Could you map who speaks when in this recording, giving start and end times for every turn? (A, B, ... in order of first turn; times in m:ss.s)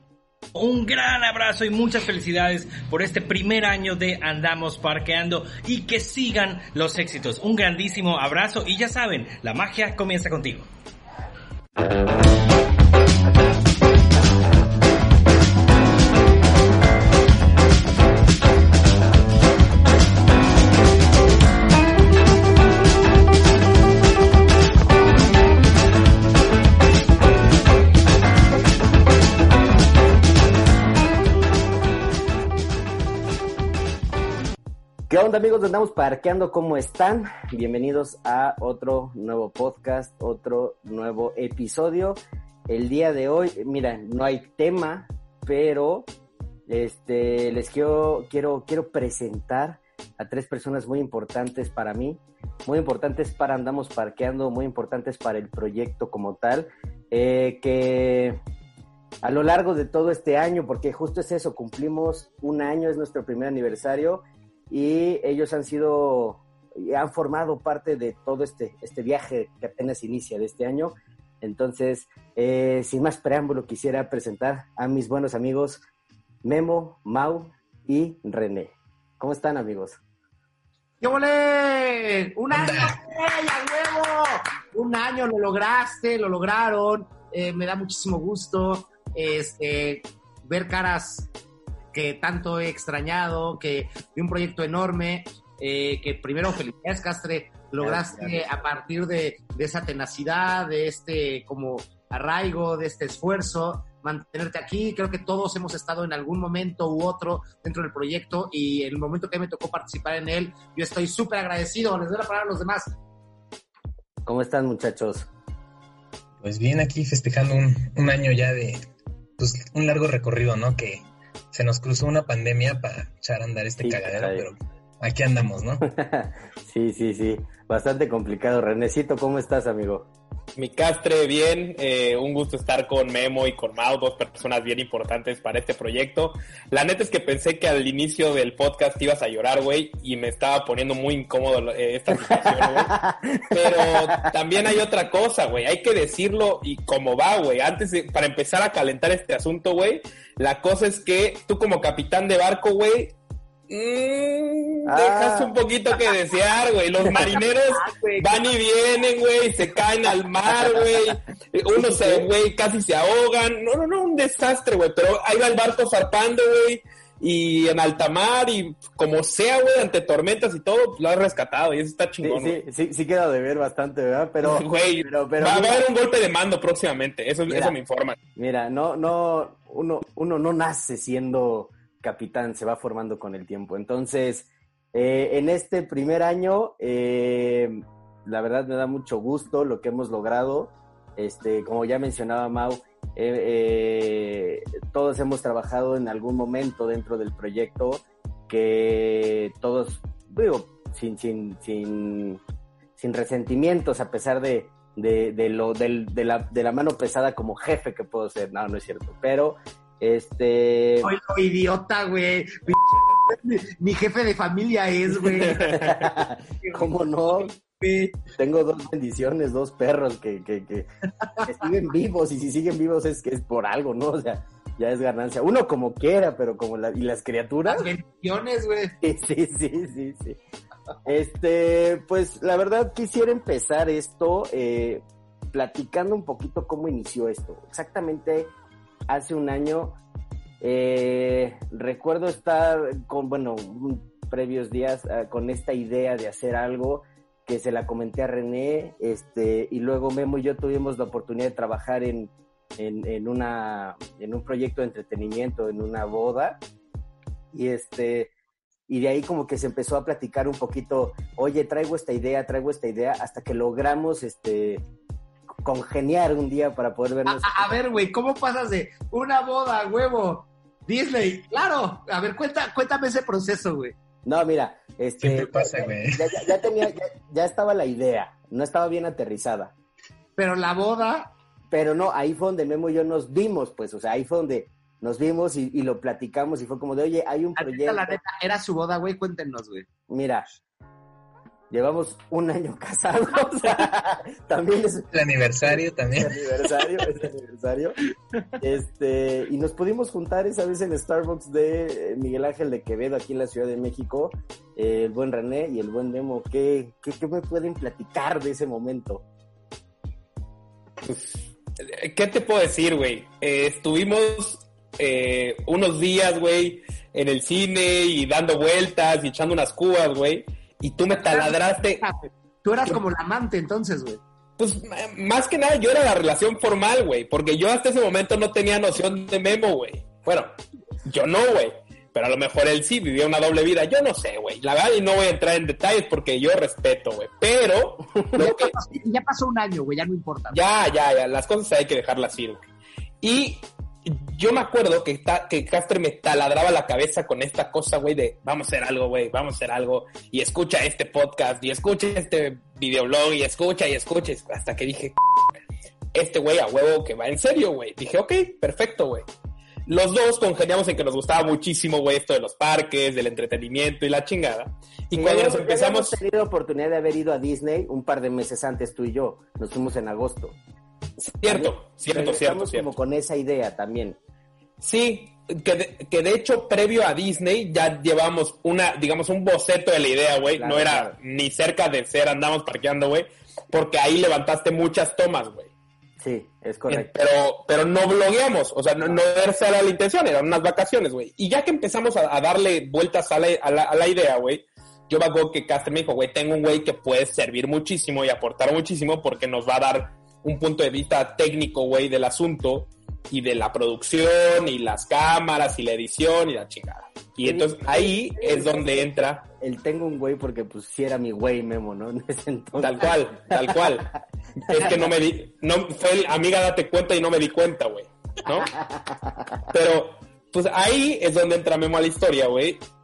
0:00.5-0:10.7 A
0:35.1-0:46.1 B
0:46.7-0:58.4 B
0:59.2-1:15.8 B
1:16.4-1:20.0 B
1:21.0-1:31.3 C
1:22.5-1:23.0 D
1:31.9-1:53.0 C
1:37.8-1:38.7 B
1:54.2-1:55.3 B
1:56.4-1:58.8 D
1:59.4-2:05.8 D
2:03.8-2:04.5 B
2:05.8-2:10.1 B
2:10.6-2:23.0 E
2:22.1-2:24.2 B
2:23.5-2:33.1 E
2:33.7-2:52.6 E
2:34.9-2:35.6 B
2:37.8-2:38.4 C
2:40.5-2:41.2 B
2:41.8-2:42.3 B
2:52.2-2:55.8 B
2:54.4-2:58.2 E
2:57.5-2:57.8 B
2:58.4-3:22.4 B
3:23.0-3:31.1 B
3:31.0-3:35.8 C
3:35.7-3:35.9 E
3:35.7-3:37.5 B
3:36.6-3:36.9 C
3:37.6-3:38.2 C
3:38.4-3:40.9 B
3:41.4-3:47.9 B
3:47.7-3:48.9 C
3:49.0-3:50.4 B
3:51.1-3:58.5 B
3:59.1-4:00.0 B
4:00.6-4:16.6 B
4:17.5-4:18.3 B
4:18.9-4:24.8 B
4:25.6-4:27.8 B
4:27.3-4:33.9 C
4:34.2-4:39.7 B
4:35.2-4:36.5 D
4:40.4-4:41.3 C
4:41.7-4:48.2 B
4:47.6-4:49.9 C
4:50.1-4:50.5 B
4:51.7-4:55.1 B
4:55.1-4:56.8 D
4:55.6-4:58.0 B
4:58.6-5:09.2 B
5:11.0-5:22.0 E
5:21.1-5:24.2 C
5:24.6-5:30.5 E
5:31.1-5:38.7 E
5:38.4-5:40.6 C
5:40.5-5:42.6 E
5:43.2-5:55.2 E
5:56.1-5:59.3 E
5:59.9-6:06.2 E
6:05.1-6:10.6 B
6:11.2-6:12.9 E
6:11.4-6:14.2 B
6:14.8-6:25.7 E
6:20.6-6:21.2 B
6:26.2-6:27.1 B
6:26.9-6:49.4 E
6:47.4-6:54.1 B
6:52.8-6:54.1 E
6:54.6-6:58.7 E
6:54.7-6:55.1 B
6:58.8-6:59.6 B
6:59.7-7:02.8 E